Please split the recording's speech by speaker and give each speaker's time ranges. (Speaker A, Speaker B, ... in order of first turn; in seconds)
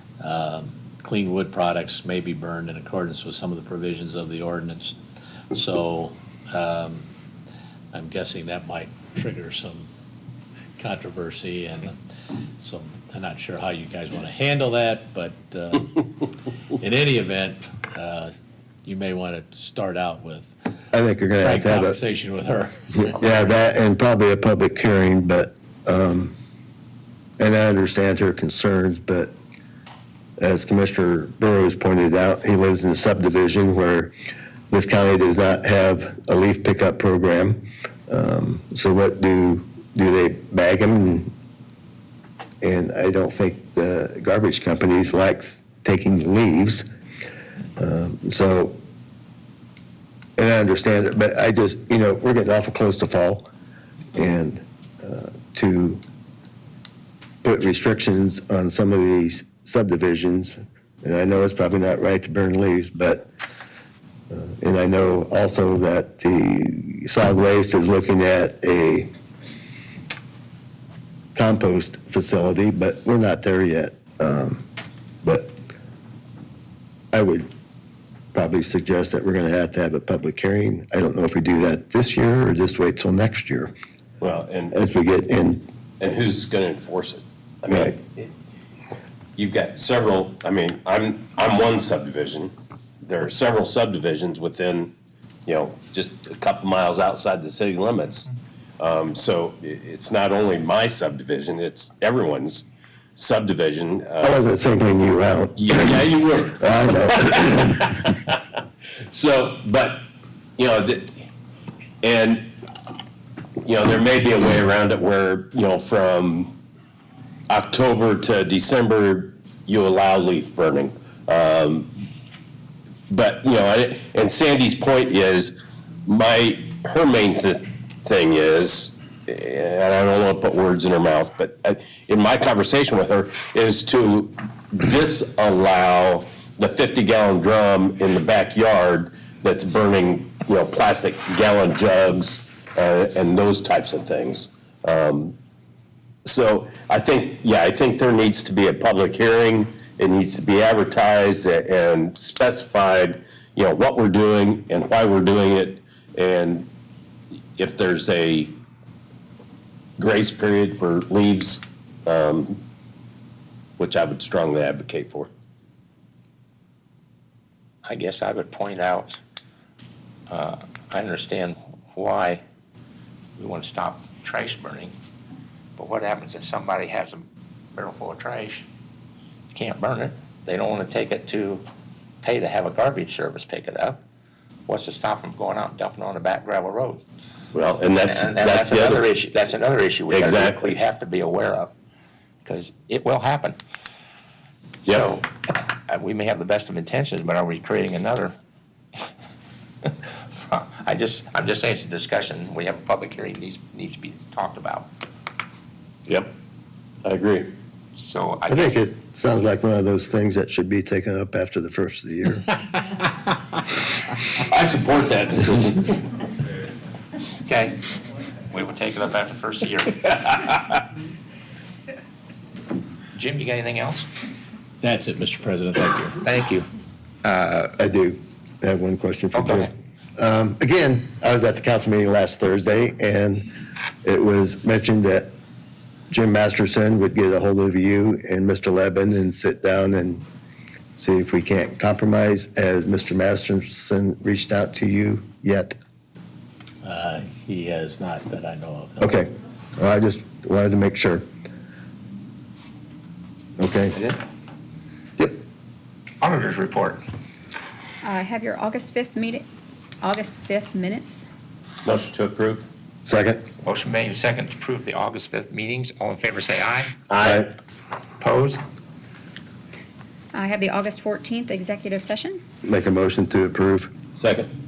Speaker A: 0.2-5.0, 5.5-7.1, 7.9-9.9, 10.8-12.0, 12.6-16.1, 16.8-18.3, 18.9-20.6, 21.4-23.1, 224.8-226.2, 246.8-249.2
Speaker B: 20.9-22.0, 23.1-26.3, 27.4-29.3, 30.4-34.1, 34.7-41.3, 42.6-46.9, 47.8-48.8, 50.4-53.5, 54.1-56.0, 57.4-63.3, 64.3-69.1, 71.3-74.7, 75.2-75.5, 77.1-77.5, 78.3-83.7, 84.7-85.7, 104.2-107.9, 208.5-212.5, 227.8-233.5, 234.0-235.3, 236.1-240.2, 241.0-245.8, 249.0-251.3, 253.6-254.0, 263.1-263.5, 267.2-267.5, 272.6-273.9
Speaker C: 84.2-84.7, 86.0-88.3, 89.4-104.4, 105.6-108.4, 109.1-110.0, 110.6-111.2, 112.0-112.5, 113.6-116.6, 117.5-121.9, 123.1-125.5, 126.1-145.4, 146.2-156.7, 157.6-158.6, 160.0-162.6, 163.8-165.3, 187.5-189.1, 190.1-190.8, 206.1-206.3, 207.0-207.5, 214.5-216.0, 261.8-262.7, 267.1-267.5, 274.1-274.5
Speaker D: 167.8-169.2, 170.3-172.4, 173.4-174.9, 175.8-178.7, 179.5-181.7, 182.2-184.0, 184.7-187.0, 188.1-191.7, 192.4-193.6, 194.8-198.3, 200.3-204.9, 208.0-208.8, 217.4-217.8, 218.5-220.1, 223.1-224.1, 226.2-226.7, 227.2-227.8, 229.3-229.7, 256.2-257.1, 263.6-267.0, 268.2-268.6
Speaker E: 258.0-259.5, 260.0-261.3, 270.3-272.4